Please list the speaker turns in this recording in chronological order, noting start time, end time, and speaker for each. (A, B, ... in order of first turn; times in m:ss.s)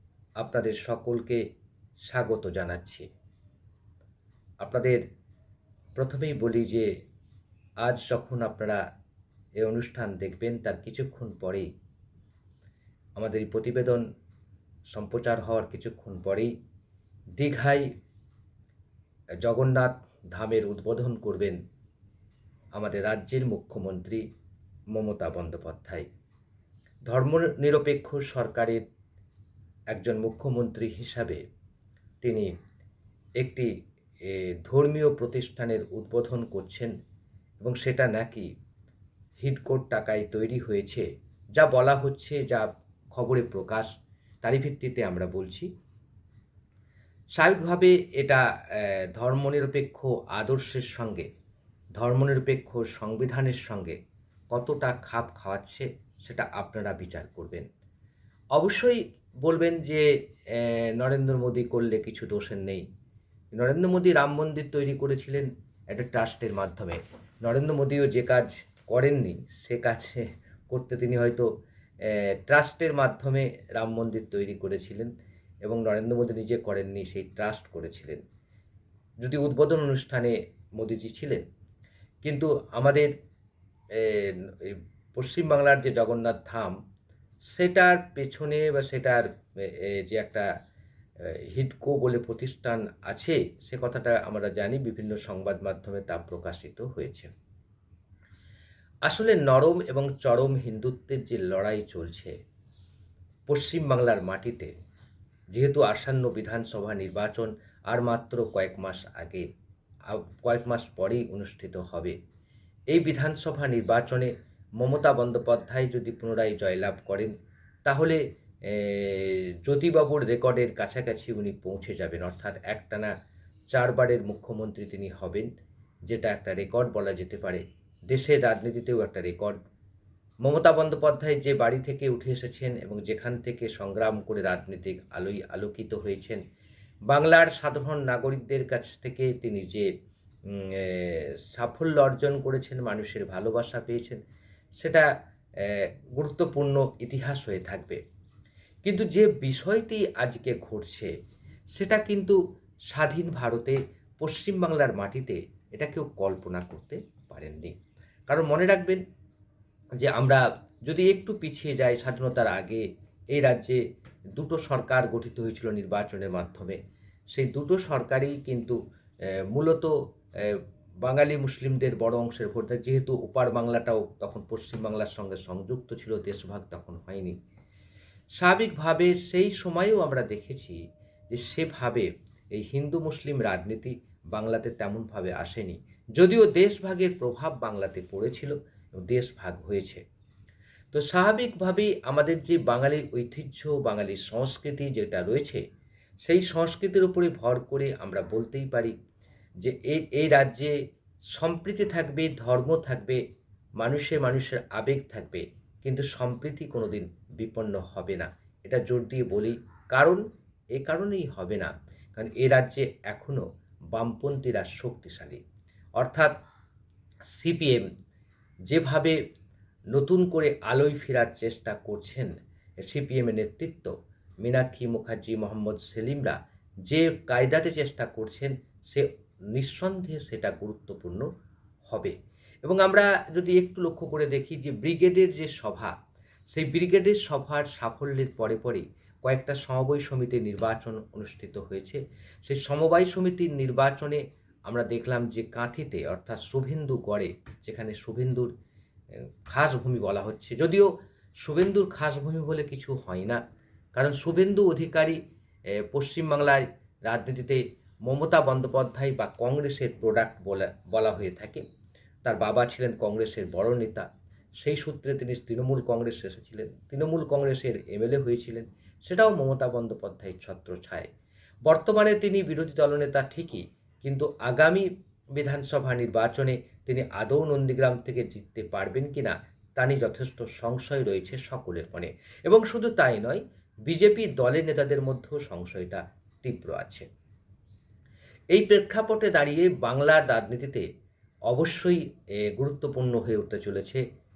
0:00.4-0:01.4 A
0:02.1-0:03.1 A
0:04.6-0:05.0 A
0:06.0-0:06.9 A
0:07.8-0:08.8 A
0:09.6-0:11.7 A
0:13.2-0:14.0 A
0:14.9-0:16.5 A
0:17.4-0:17.9 A
0:19.4-0:21.6 A
0:22.7-0:24.2 A
0:24.9-0:26.0 A
0:27.1-0:28.8 A
0:29.9-0:31.4 A
0:32.2-0:32.5 A
0:33.4-0:33.7 A
0:34.2-0:36.9 A
0:37.6-0:38.5 A
0:39.4-0:43.9 A
0:44.4-0:45.6 A
0:47.4-0:51.3 A
0:52.0-0:54.0 A
0:54.5-0:57.7 A
0:58.6-1:02.8 A
1:03.5-1:11.5 A
1:12.0-1:15.1 A
1:15.6-1:18.2 A
1:19.2-1:21.4 A
1:22.2-1:23.1 A
1:23.9-1:26.8 A
1:27.5-1:30.5 A
1:31.2-1:37.3 A
1:39.0-1:42.3 A
1:43.5-1:44.7 A
1:45.5-1:49.5 A
1:50.1-1:52.2 A
1:52.9-1:57.3 A
1:57.8-2:03.1 A
2:03.7-2:05.5 A
2:06.1-2:09.6 A
2:10.4-2:16.4 A
2:17.1-2:19.9 A
2:20.5-2:24.2 A
2:24.8-2:25.1 A
2:25.6-2:28.0 A
2:28.8-2:31.1 A
2:31.8-2:32.4 A
2:32.9-2:37.8 A
2:38.3-2:39.0 A
2:40.0-2:43.8 A
2:44.4-2:46.8 A
2:47.3-2:48.8 A
2:49.5-2:57.4 A
2:58.4-3:00.8 A
3:01.3-3:10.0 A
3:10.9-3:15.6 A
3:16.2-3:18.9 A
3:19.6-3:20.7 A
3:21.3-3:23.2 A
3:23.8-3:30.2 A
3:30.7-3:35.4 A
3:36.0-3:36.4 A
3:37.3-3:37.9 A
3:38.7-3:39.2 A
3:39.9-3:43.9 A
3:44.4-3:46.4 A
3:46.9-3:51.2 A
3:51.8-3:55.9 A
3:56.5-4:08.5 A
4:09.1-4:10.9 A
4:11.4-4:13.4 A
4:13.9-4:15.2 A
4:15.7-4:21.6 A
4:22.2-4:24.1 A
4:24.6-4:31.1 A
4:31.6-4:47.0 A
4:48.5-4:50.8 A
4:51.5-4:54.0 A